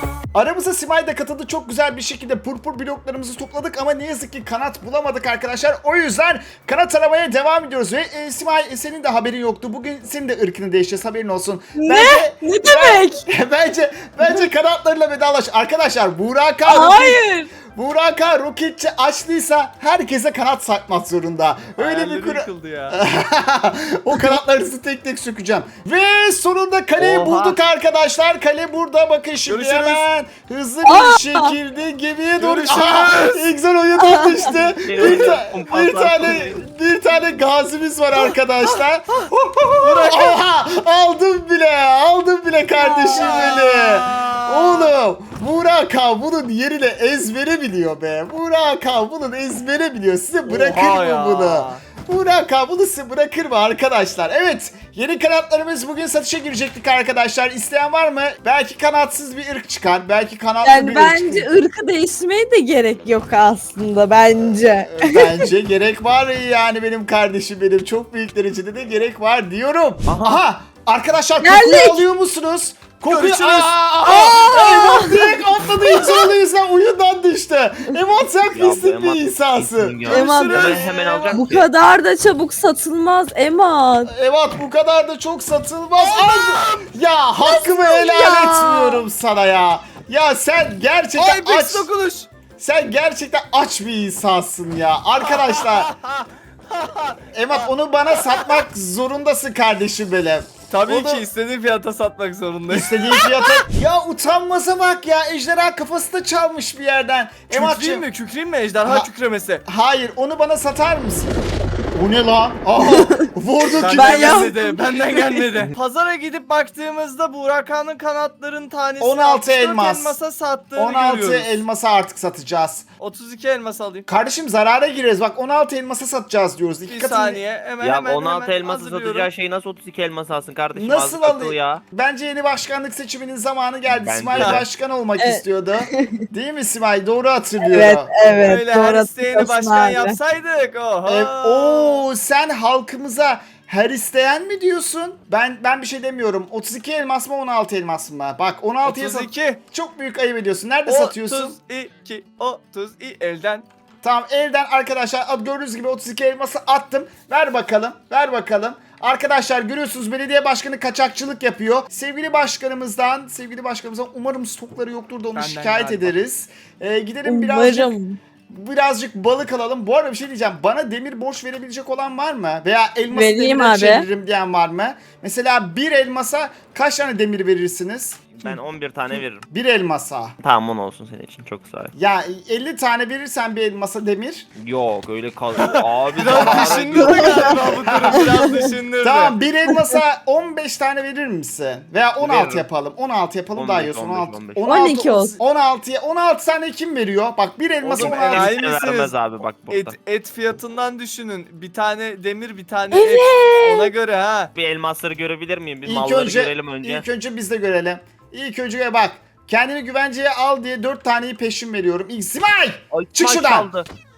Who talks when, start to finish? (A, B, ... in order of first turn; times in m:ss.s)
0:00.3-1:01.5 A
0:11.8-0:13.2 B
0:16.6-0:17.5 B
0:21.8-0:23.0 C
0:27.0-0:27.6 D
0:29.5-0:30.0 C
0:30.8-0:31.5 B
0:32.4-0:33.5 C
0:34.8-0:36.7 D
0:35.0-0:35.4 C
0:39.7-0:40.4 C
0:42.8-0:43.5 B
0:43.1-0:44.9 C
0:50.5-0:51.8 C
1:00.6-1:05.4 B
1:04.4-1:20.1 A
1:10.1-1:10.4 D
1:11.4-1:12.0 B
1:13.1-1:13.7 C
1:14.0-1:16.3 B
1:18.5-1:21.7 D
1:20.0-1:21.4 C
1:20.1-1:24.1 B
1:24.0-1:31.9 A
1:26.0-1:26.9 C
1:27.4-1:29.0 B
1:31.2-1:32.3 C
1:32.6-1:35.9 A
1:35.2-1:37.7 C
1:37.3-1:41.2 A
1:40.7-1:43.6 C
1:42.7-1:48.0 A
1:47.5-1:49.6 C
1:49.6-1:51.4 A
1:51.9-1:54.5 A
1:53.8-2:01.6 C
1:53.9-1:55.4 B
1:59.0-2:00.2 A
2:00.8-2:02.8 A
2:03.0-2:04.1 C
2:04.1-2:07.4 A
2:06.9-2:09.3 C
2:07.8-2:11.8 D
2:10.7-2:18.1 A
2:13.9-2:14.7 D
2:14.4-2:14.6 C
2:15.2-2:16.2 B
2:17.7-2:20.2 B
2:18.2-2:22.0 C
2:21.0-2:31.6 A
2:28.8-2:29.6 C
2:30.9-2:33.6 C
2:34.0-2:47.9 A
2:45.3-2:46.2 C
2:47.2-2:48.2 B
2:48.5-2:58.4 A
2:53.1-2:54.0 B
2:58.3-2:59.5 D
2:59.5-3:00.4 A
3:00.4-3:01.9 D
3:01.9-3:04.5 A
3:04.6-3:07.7 D
3:05.6-3:09.3 C
3:06.3-3:08.3 A
3:09.0-3:18.5 A
3:12.2-3:12.7 D
3:13.5-3:14.6 D
3:14.6-3:15.4 B
3:17.8-3:19.2 C
3:17.9-3:19.9 D
3:19.7-3:24.5 C
3:22.9-3:23.9 B
3:24.5-3:27.0 D
3:25.8-3:33.7 A
3:32.9-3:33.9 D